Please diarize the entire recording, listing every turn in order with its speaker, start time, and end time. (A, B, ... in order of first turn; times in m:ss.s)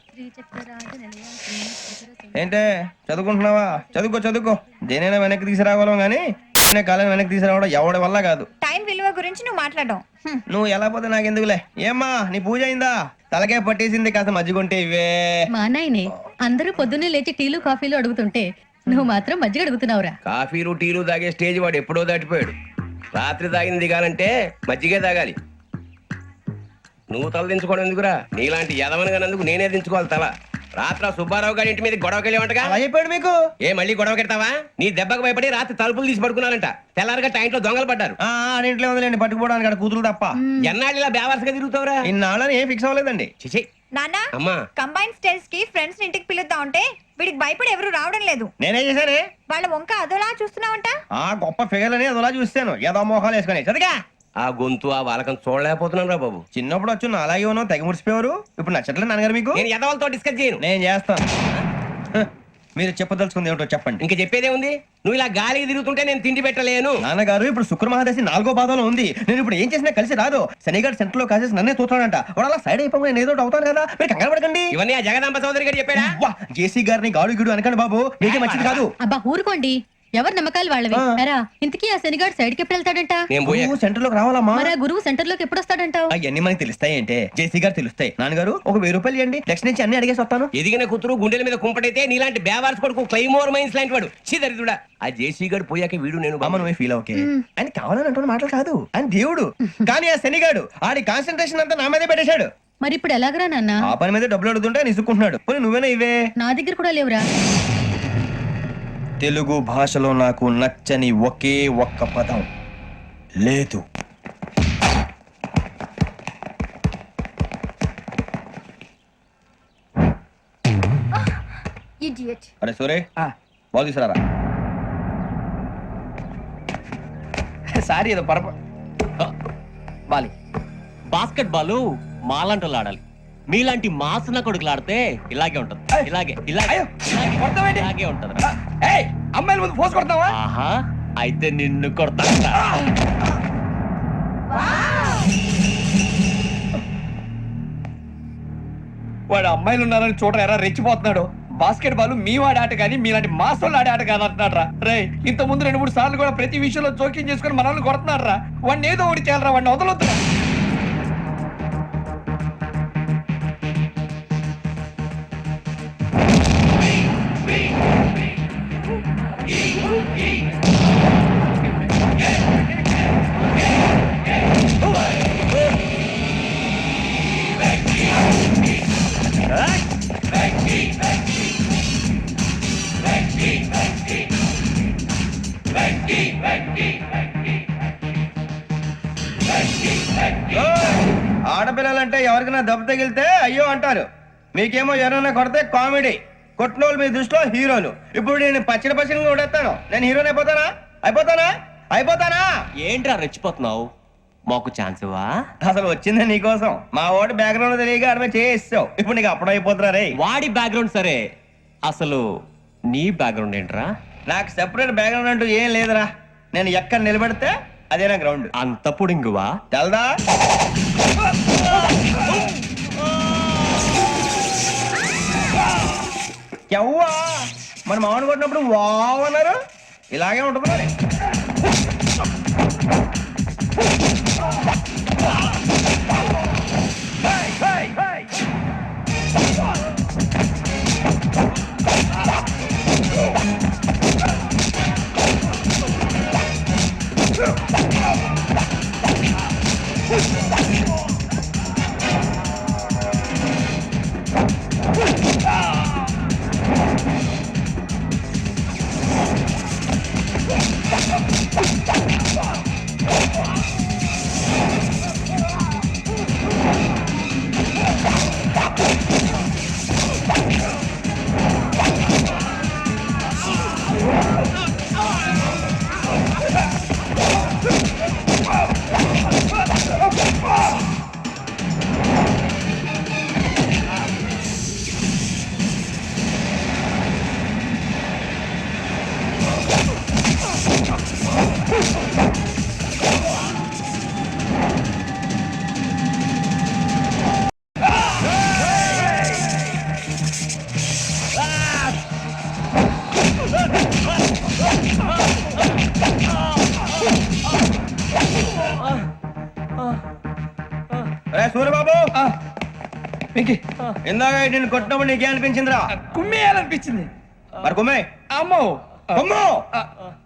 0:00.1-0:02.6 A
0:02.3-0:08.5 B
0:03.6-0:04.0 A
0:08.6-0:10.4 C
0:10.5-0:15.5 B
0:15.5-0:20.1 A
0:20.3-0:22.6 D
0:23.1-0:25.4 D
0:27.1-0:32.8 D
0:32.6-0:33.4 B
0:33.7-0:38.2 D
0:38.2-0:40.4 B
0:40.6-0:42.0 D
0:42.0-0:43.3 B
0:43.9-0:48.5 C
0:44.3-0:44.6 D
0:48.6-0:49.2 B
0:49.5-0:51.0 C
0:51.2-0:53.9 B
0:54.4-0:56.4 D
0:56.5-0:59.6 B
0:59.5-1:00.6 D
1:00.6-1:01.2 B
1:02.1-1:04.0 B
1:04.0-1:07.0 D
1:07.0-1:14.7 B
1:14.7-1:16.1 D
1:15.9-1:18.9 B
1:18.2-1:18.8 D
1:19.0-1:23.2 A
1:20.9-1:21.2 B
1:23.3-1:23.7 D
1:23.4-1:24.7 B
1:24.6-1:26.1 A
1:26.1-1:30.5 B
1:30.6-1:36.7 D
1:36.4-1:42.5 B
1:42.8-1:43.8 A
1:43.8-1:46.2 B
1:46.4-1:47.2 A
1:49.2-1:52.5 B
1:53.4-1:53.8 B
2:02.6-2:03.0 B
2:03.7-2:04.2 B
2:07.7-2:08.5 E
2:11.1-2:18.4 F
2:16.7-2:17.9 E
2:18.4-2:20.4 E
2:20.3-2:22.6 F
2:29.3-2:40.2 E
3:10.5-3:22.4 B
3:22.8-3:23.9 F
3:24.5-3:25.3 F
3:25.6-3:30.1 B
3:30.1-3:31.2 F
3:31.8-3:32.2 F
3:32.9-3:33.9 F
3:34.3-3:38.5 B
3:38.6-3:39.5 F
3:39.7-3:40.1 B
3:46.7-3:49.6 B
3:50.1-3:50.9 B
5:11.3-5:12.1 B
5:13.3-5:13.6 E
5:14.1-5:15.9 B
5:16.0-5:17.1 E
5:17.6-5:18.1 B
5:18.3-5:19.2 E
5:19.1-5:19.6 B